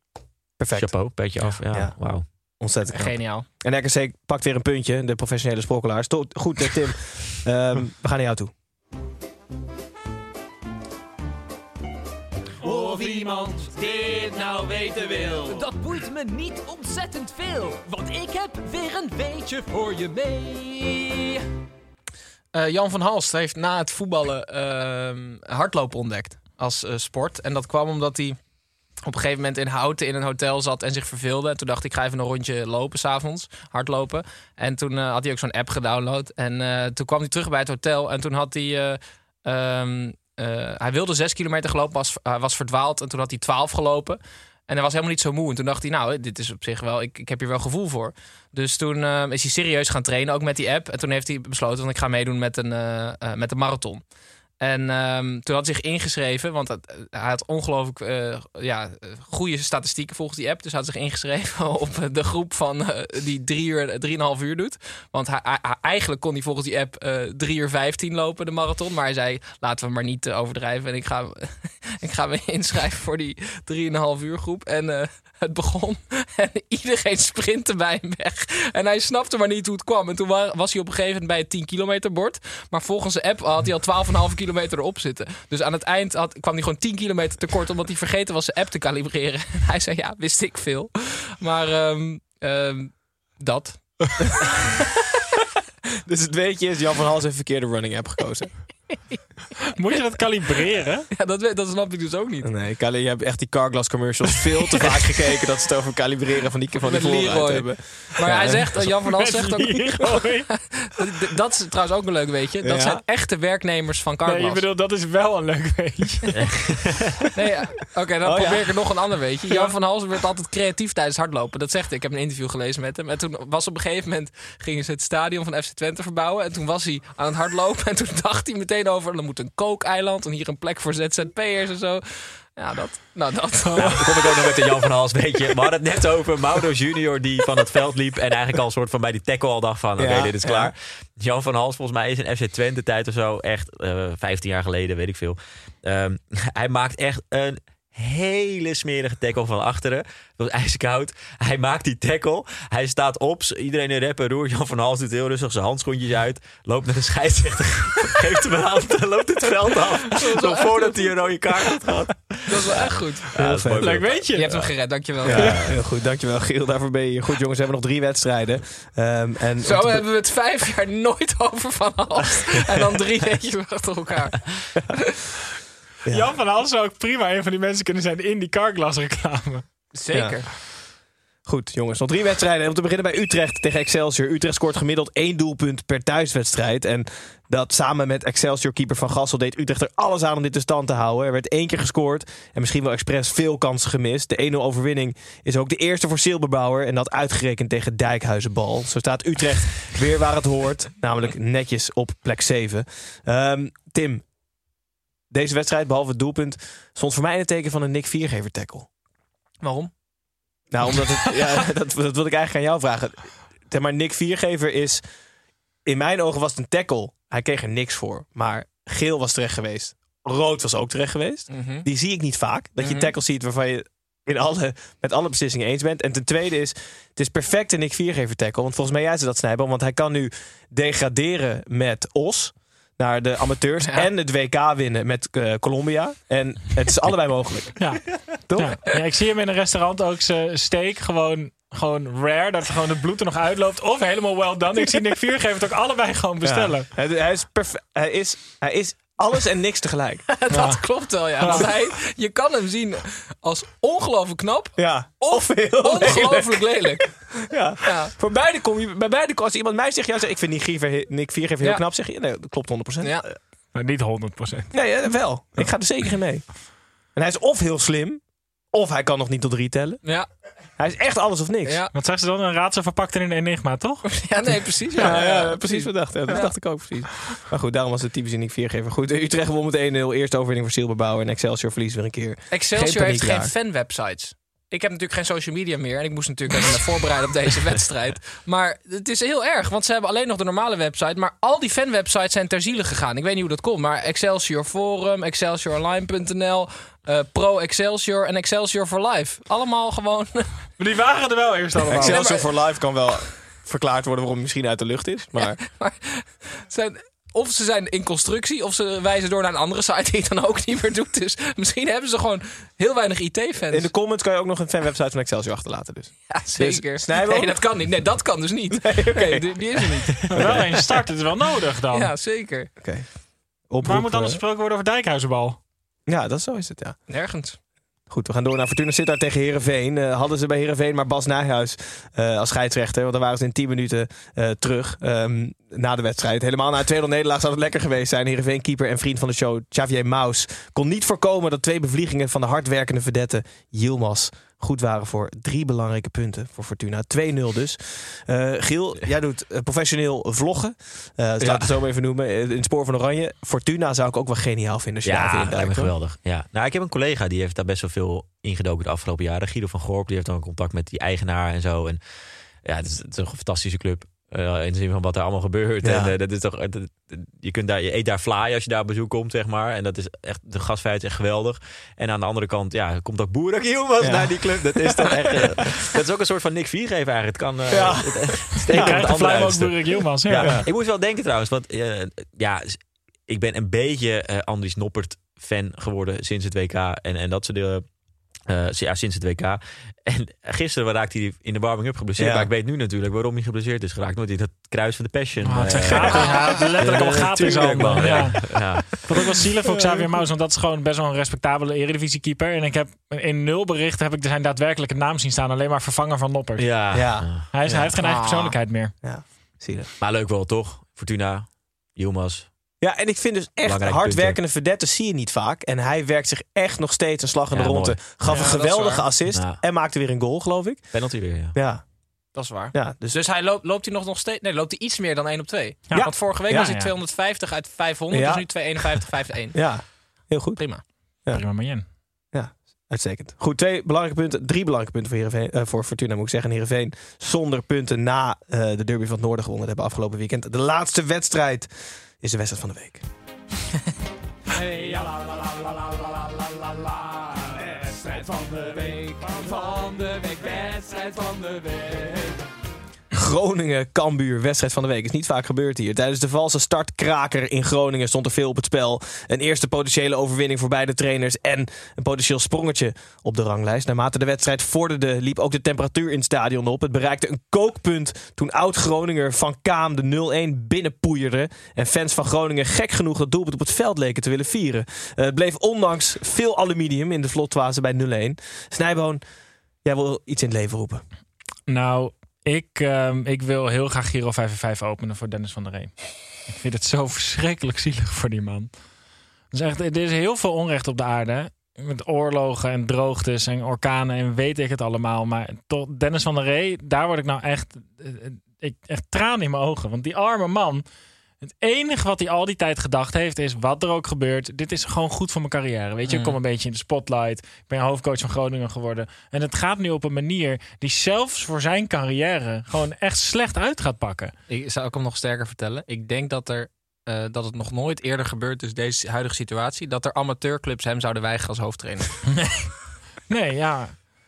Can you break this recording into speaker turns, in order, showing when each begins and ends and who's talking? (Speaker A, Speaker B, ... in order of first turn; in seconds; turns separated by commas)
Speaker A: 0.6-8.5, Speaker B: 0.7-2.3, Speaker C: 2.9-3.5, Speaker D: 12.6-21.4, Speaker C: 22.5-28.4, Speaker C: 29.0-54.0, Speaker C: 54.6-94.2, Speaker A: 96.0-98.6, Speaker E: 99.8-101.1, Speaker C: 101.1-102.5, Speaker A: 102.4-108.8, Speaker C: 106.8-114.6, Speaker E: 108.4-110.6, Speaker A: 112.6-113.0, Speaker E: 114.2-116.4, Speaker B: 116.4-117.0, Speaker C: 117.3-133.9, Speaker A: 118.2-118.7, Speaker E: 119.5-119.7, Speaker E: 133.7-134.0, Speaker B: 133.8-164.6, Speaker A: 140.0-140.7, Speaker C: 160.1-161.1, Speaker C: 162.4-163.2, Speaker A: 163.4-164.0, Speaker E: 163.8-164.7, Speaker C: 164.3-165.5, Speaker A: 165.3-170.1, Speaker B: 165.3-165.7, Speaker C: 169.6-174.5, Speaker A: 176.1-176.3, Speaker E: 176.1-179.6, Speaker C: 179.9-180.5, Speaker A: 180.1-180.4, Speaker A: 181.4-204.2, Speaker A: 205.3-208.9, Speaker C: 209.6-209.9, Speaker A: 210.7-215.0, Speaker A: 215.8-238.8, Speaker C: 221.5-221.9, Speaker C: 222.8-223.1, Speaker E: 237.8-246.9, Speaker A: 246.4-250.7, Speaker C: 250.3-257.3, Speaker E: 250.5-251.7, Speaker A: 254.8-263.2, Speaker C: 257.8-258.1, Speaker E: 263.7-264.9, Speaker A: 264.7-270.0, Speaker A: 270.8-271.8, Speaker C: 271.6-271.9, Speaker E: 271.9-274.1, Speaker C: 274.1-276.6, Speaker A: 275.0-283.5, Speaker C: 282.5-300.7, Speaker E: 300.8-302.2, Speaker A: 301.8-305.6, Speaker C: 301.9-302.5, Speaker C: 305.4-313.9, Speaker A: 313.7-317.9, Speaker C: 316.3-320.3, Speaker A: 318.7-320.8, Speaker E: 320.3-322.1, Speaker C: 321.9-322.7, Speaker A: 322.8-323.1, Speaker A: 323.6-324.4, Speaker E: 323.8-325.6, Speaker A: 326.1-327.0, Speaker C: 327.1-327.6, Speaker A: 328.1-355.9, Speaker B: 351.4-351.7, Speaker B: 355.1-387.9, Speaker A: 365.8-366.1, Speaker A: 374.0-375.6, Speaker A: 377.7-379.1, Speaker E: 378.7-380.6, Speaker B: 388.4-399.2, Speaker A: 392.2-392.5, Speaker E: 395.4-408.9, Speaker A: 399.7-400.1, Speaker B: 406.6-407.5, Speaker A: 406.9-407.9, Speaker C: 407.9-408.6, Speaker A: 409.0-409.9, Speaker B: 410.0-412.5, Speaker A: 412.8-423.2, Speaker B: 413.6-414.4, Speaker B: 417.5-418.5, Speaker C: 418.3-419.1, Speaker B: 419.3-419.6, Speaker B: 420.9-421.6, Speaker C: 422.3-430.0, Speaker E: 425.9-426.9, Speaker A: 425.9-426.7, Speaker A: 428.1-428.8, Speaker A: 429.5-431.4, Speaker C: 430.6-430.8, Speaker E: 431.3-431.9, Speaker A: 432.3-443.0, Speaker D: 444.5-452.4, Speaker A: 453.1-479.2, Speaker A: 479.8-481.0, Speaker E: 481.7-488.8, Speaker E: 489.5-500.8, Speaker E: 501.5-514.3, Speaker C: 506.1-506.4, Speaker C: 514.5-522.2, Speaker E: 522.4-522.7, Speaker E: 523.3-524.1